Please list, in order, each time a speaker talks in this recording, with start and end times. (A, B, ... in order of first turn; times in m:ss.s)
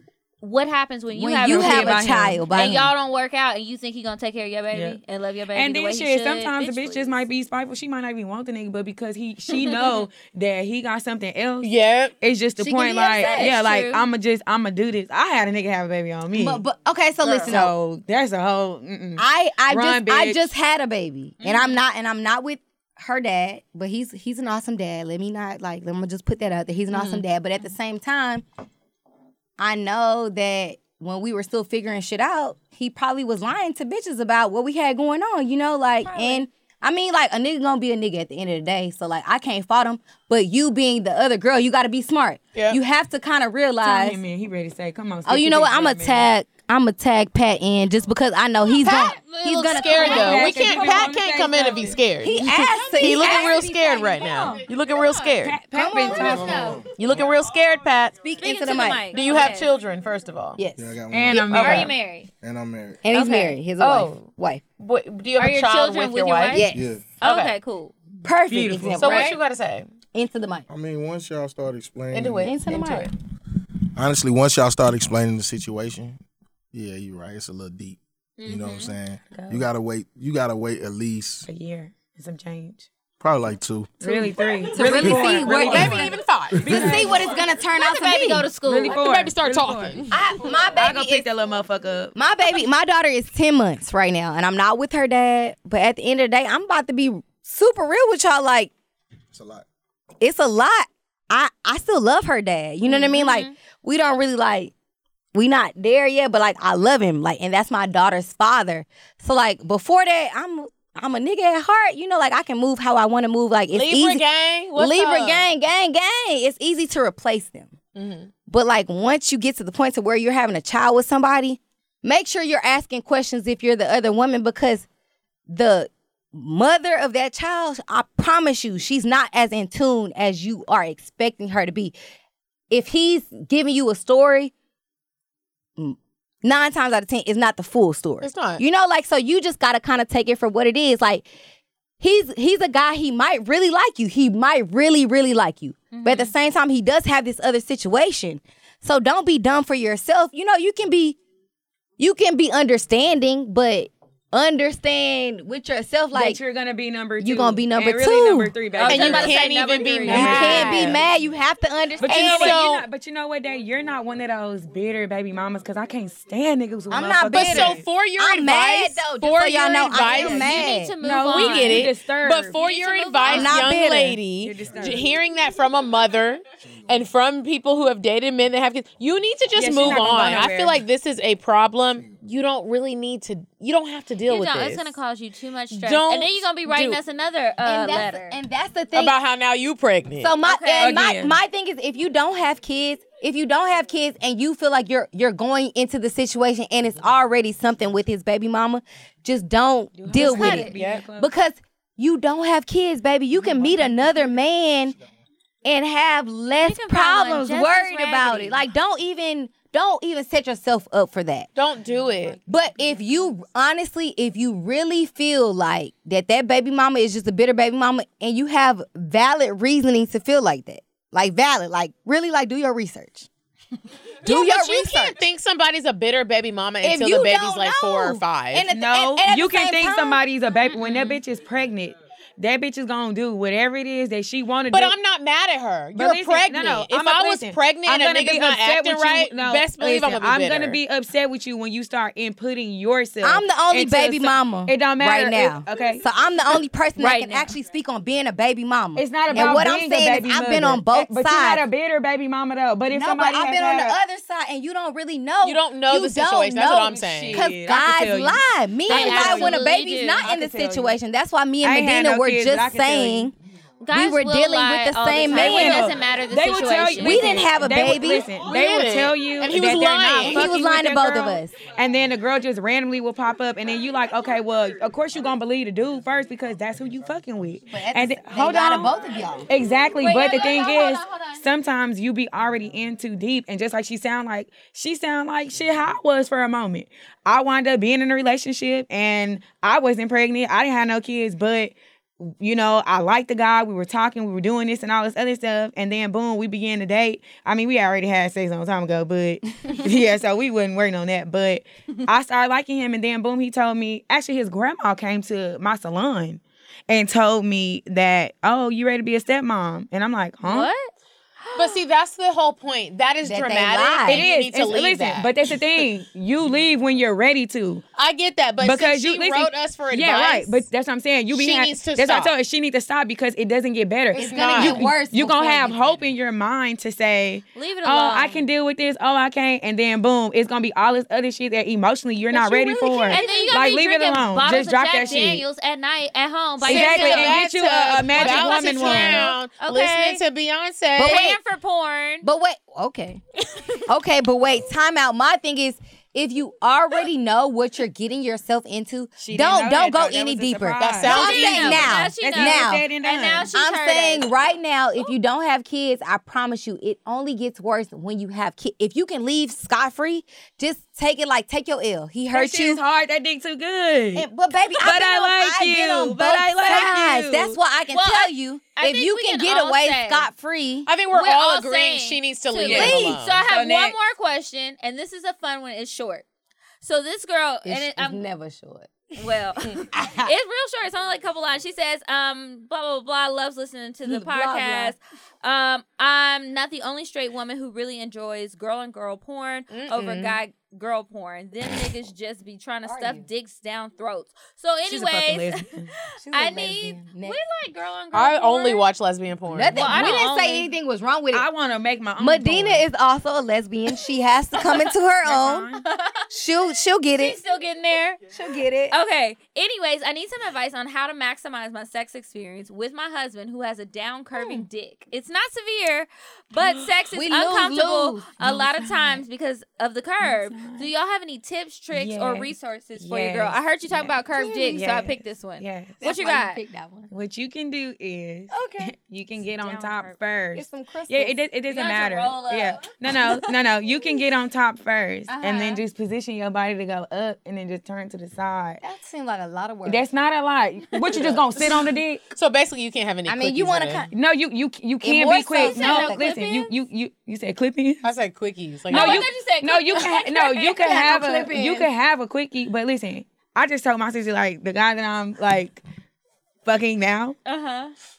0:00.4-0:07.2 A
0:01.1-0:02.9 B
0:01.4-0:02.7 C
0:04.7-0:05.0 C
0:05.5-0:16.6 C
0:11.6-0:12.1 D
0:12.6-0:13.6 B
0:13.1-0:14.0 A
0:16.3-0:17.7 B
0:17.2-0:17.6 A
0:17.5-0:20.5 C
0:19.2-0:28.4 B
0:21.4-0:21.8 A
0:26.9-0:27.2 D
0:29.6-0:44.2 B
0:36.0-0:36.4 A
0:42.5-0:42.8 D
0:43.8-0:46.3 C
0:45.2-0:50.5 B
0:48.8-0:55.6 D
0:48.8-0:51.1 A
0:50.0-0:52.0 C
0:52.2-0:54.6 B
0:53.0-0:53.5 A
0:54.2-0:55.3 A
0:55.4-0:56.7 C
0:55.7-0:56.8 B
0:56.1-0:56.8 A
0:56.2-0:57.2 E
0:56.9-0:58.2 D
0:58.2-0:59.2 B
0:58.4-0:59.7 A
0:59.1-1:00.6 D
1:00.6-1:01.8 B
1:00.8-1:03.0 E
1:01.1-1:01.9 C
1:01.5-1:02.3 A
1:03.0-1:04.6 B
1:03.1-1:03.6 A
1:03.8-1:06.7 D
1:05.4-1:06.7 A
1:06.5-1:06.9 B
1:06.7-1:07.0 E
1:07.2-1:07.5 D
1:07.2-1:07.9 A
1:08.2-1:09.4 B
1:08.5-1:09.3 C
1:08.9-1:09.9 D
1:10.1-1:10.7 B
1:10.7-1:12.5 E
1:12.1-1:13.1 D
1:12.4-1:13.1 B
1:14.0-1:16.2 E
1:16.7-1:21.5 E
1:18.4-1:19.6 C
1:18.4-1:18.8 A
1:21.4-1:22.9 C
1:23.2-1:25.4 E
1:24.0-1:27.3 C
1:24.7-1:28.5 B
1:25.5-1:27.0 D
1:27.8-1:29.0 A
1:28.6-1:30.0 C
1:28.8-1:30.2 D
1:30.1-1:31.3 B
1:30.7-1:32.1 C
1:32.1-1:38.7 B
1:39.3-1:39.6 E
1:40.2-1:44.7 B
1:43.2-1:43.5 A
1:45.3-1:57.8 B
1:53.7-1:55.5 D
1:58.0-1:58.3 D
1:58.5-2:04.8 B
2:05.5-2:11.9 B
2:12.7-2:14.5 B
2:15.8-2:21.3 B
2:18.2-2:18.6 D
2:22.0-2:31.2 B
2:25.9-2:26.3 A
2:32.0-2:36.4 B
2:36.1-2:39.4 C
2:37.2-2:38.5 B
2:38.7-2:40.9 A
2:38.8-2:41.0 D
2:40.0-2:40.9 C
2:40.1-2:42.6 B
2:42.0-2:47.8 C
2:42.0-2:42.8 D
2:46.9-2:50.9 B
2:47.3-2:50.7 D
2:50.1-2:51.9 A
2:51.0-2:52.6 C
2:51.2-3:04.9 D
2:52.5-2:53.6 A
2:53.3-2:54.2 B
2:54.4-2:55.1 C
2:54.6-2:55.0 E
2:59.5-3:00.8 C
3:04.3-3:08.4 A
3:05.8-3:07.0 D
3:07.6-3:09.1 B
3:08.9-3:10.4 D
3:10.2-3:24.9 B
3:10.4-3:11.0 A
3:10.8-3:11.4 C
3:20.0-3:21.3 C
3:20.1-3:20.7 A
3:20.4-3:21.0 D
3:23.5-3:23.8 C
3:25.6-3:31.5 B
3:26.6-3:28.6 A
3:31.6-3:32.4 D
3:32.4-3:43.3 B
3:44.2-3:45.2 B
3:44.2-3:48.7 D
3:46.8-3:50.2 B
3:48.7-3:55.0 C
3:50.7-3:51.2 A
3:54.7-4:00.8 D
3:55.9-4:06.0 C
4:03.2-4:11.6 B
4:07.0-4:07.5 A
4:08.9-4:14.0 C
4:12.9-4:23.3 B
4:15.4-4:17.4 D
4:16.9-4:19.6 C
4:18.9-4:20.3 A
4:20.2-4:21.0 C
4:21.6-4:23.3 C
4:23.8-4:27.5 A
4:23.9-4:26.0 B
4:25.2-4:38.9 C
4:27.0-4:28.3 B
4:28.4-4:30.5 D
4:30.2-4:31.6 B
4:37.7-4:39.5 B
4:39.5-5:10.7 C
4:40.0-4:41.4 A
5:10.4-5:10.9 A
5:11.5-5:15.3 D
5:13.2-5:14.2 B
5:14.0-5:17.8 C
5:18.0-5:20.6 D
5:18.6-5:35.4 C
5:21.3-5:22.3 D
5:24.1-5:26.0 B
5:24.1-5:24.9 D
5:27.5-5:28.4 A
5:32.3-5:33.4 B
5:32.6-5:37.5 A
5:36.6-5:39.3 C
5:36.6-5:41.4 D
5:38.1-5:40.2 A
5:41.0-5:42.2 A
5:41.0-5:41.4 B
5:42.2-5:43.2 B
5:43.9-5:52.8 B
5:49.2-5:51.2 C
5:50.8-5:52.1 D
5:51.1-5:54.3 A
5:52.2-5:53.5 C
5:53.5-6:02.8 B
6:02.3-6:04.3 C
6:04.1-6:10.9 B
6:04.8-6:07.6 C
6:07.9-6:10.3 A
6:10.8-6:13.4 D
6:11.1-6:16.2 A
6:12.6-6:14.0 C
6:12.7-6:13.1 B
6:16.8-6:18.2 A
6:17.6-6:19.0 B
6:19.2-6:35.6 A
6:19.6-6:20.3 B
6:24.0-6:24.9 B
6:29.7-6:30.4 D
6:32.8-6:33.3 B
6:34.9-6:35.9 C
6:36.2-6:37.4 B
6:36.3-6:38.8 A
6:38.1-6:40.1 D
6:39.5-6:41.5 B
6:39.7-6:40.7 A
6:39.8-6:40.1 C
6:41.3-6:42.9 C
6:42.2-6:45.7 B
6:44.6-6:44.9 A
6:45.2-6:45.8 C
6:45.8-6:46.3 A
6:46.3-6:47.4 B
6:47.1-6:48.2 A
6:48.3-6:49.0 B
6:48.9-7:06.6 A
6:54.3-6:54.6 B
6:57.1-6:58.6 B
6:58.4-6:59.2 C
7:00.2-7:00.9 C
7:01.9-7:04.1 C
7:04.3-7:04.8 B
7:04.7-7:06.0 C
7:06.0-7:07.1 B
7:07.1-7:18.8 C
7:08.5-7:08.9 B
7:09.6-7:10.1 A
7:10.5-7:11.4 B
7:11.7-7:12.8 A
7:15.3-7:15.8 B
7:18.8-7:20.0 B
7:19.8-7:22.2 C
7:21.1-7:21.5 D
7:22.3-7:24.0 D
7:23.2-7:24.1 B
7:24.1-7:28.0 C
7:25.0-7:26.7 B
7:25.5-7:26.4 A
7:28.0-7:29.2 D
7:28.9-7:35.8 C
7:28.9-7:30.8 A
7:30.8-7:31.9 B
7:36.6-7:37.4 C
7:37.4-7:37.9 A